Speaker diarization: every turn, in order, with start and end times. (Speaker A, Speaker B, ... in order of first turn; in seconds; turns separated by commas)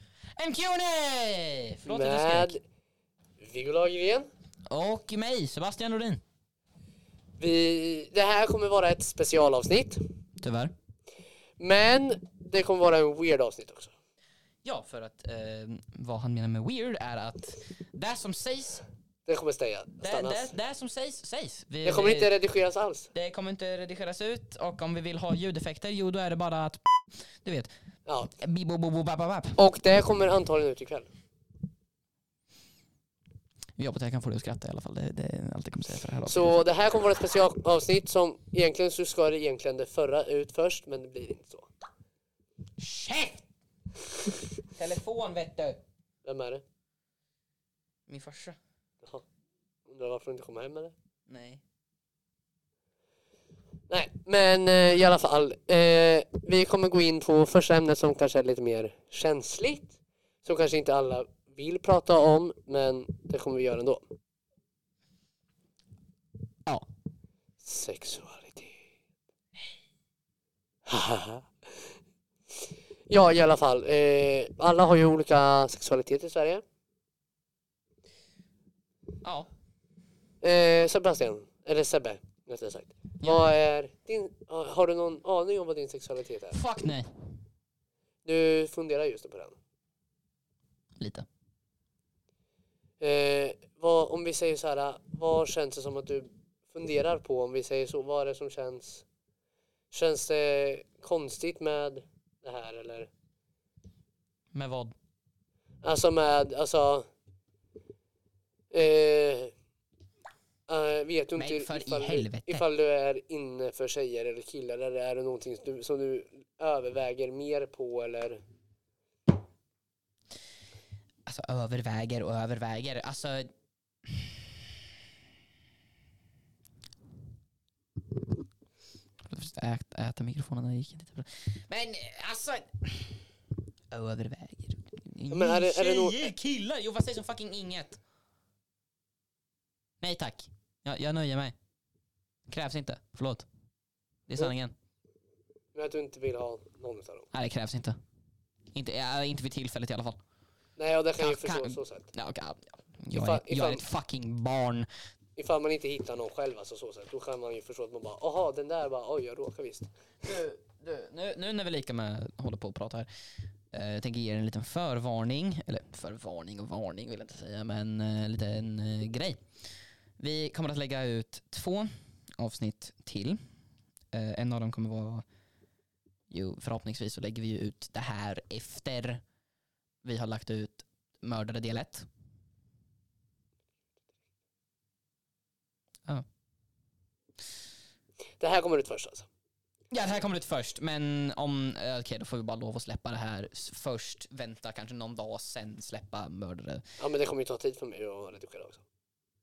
Speaker A: 0.4-2.5, Speaker B: 1.9-2.6, Speaker B: 3.4-4.3, Speaker A: 4.7-6.2, Speaker B: 7.4-10.0, Speaker A: 10.4-10.7, Speaker B: 11.6-13.9, Speaker A: 14.6-18.8, Speaker B: 19.3-20.6, Speaker A: 20.0-22.3, Speaker B: 21.9-23.1, Speaker A: 23.1-26.8, Speaker A: 27.4-27.7, Speaker B: 28.1-28.3, Speaker A: 28.4-29.6, Speaker B: 29.6-31.1, Speaker A: 33.8-36.5, Speaker B: 36.3-41.7, Speaker A: 42.8-43.5, Speaker A: 44.8-45.8, Speaker B: 46.2-46.6, Speaker A: 48.1-48.6, Speaker B: 49.9-50.9, Speaker A: 51.3-51.6, Speaker B: 53.9-59.9, Speaker B: 60.4-64.0, Speaker B: 67.6-68.8, Speaker B: 70.9-71.5, Speaker B: 73.1-76.6, Speaker A: 79.2-79.5, Speaker B: 80.4-86.6, Speaker A: 83.2-83.5, Speaker A: 86.5-87.1, Speaker B: 88.2-89.6, Speaker A: 91.0-91.3, Speaker B: 93.0-99.0, Speaker B: 99.9-103.1, Speaker A: 104.5-105.0, Speaker B: 105.8-107.1, Speaker B: 108.7-109.5, Speaker B: 110.7-118.4, Speaker A: 111.4-112.7, Speaker A: 121.3-123.5, Speaker A: 129.2-133.3, Speaker A: 133.9-138.0, Speaker B: 135.3-136.3, Speaker A: 140.0-141.6, Speaker A: 142.5-143.5, Speaker A: 144.3-144.7, Speaker B: 145.7-147.3, Speaker A: 147.3-148.0, Speaker A: 148.7-150.2, Speaker B: 150.8-152.1, Speaker A: 151.2-154.9, Speaker B: 153.1-153.8, Speaker B: 155.4-159.9, Speaker A: 160.2-163.1, Speaker A: 163.7-169.4, Speaker A: 170.2-173.4, Speaker A: 174.1-175.2, Speaker A: 176.3-179.2, Speaker A: 180.0-182.1, Speaker B: 188.4-189.3, Speaker A: 189.9-196.8, Speaker B: 197.0-198.8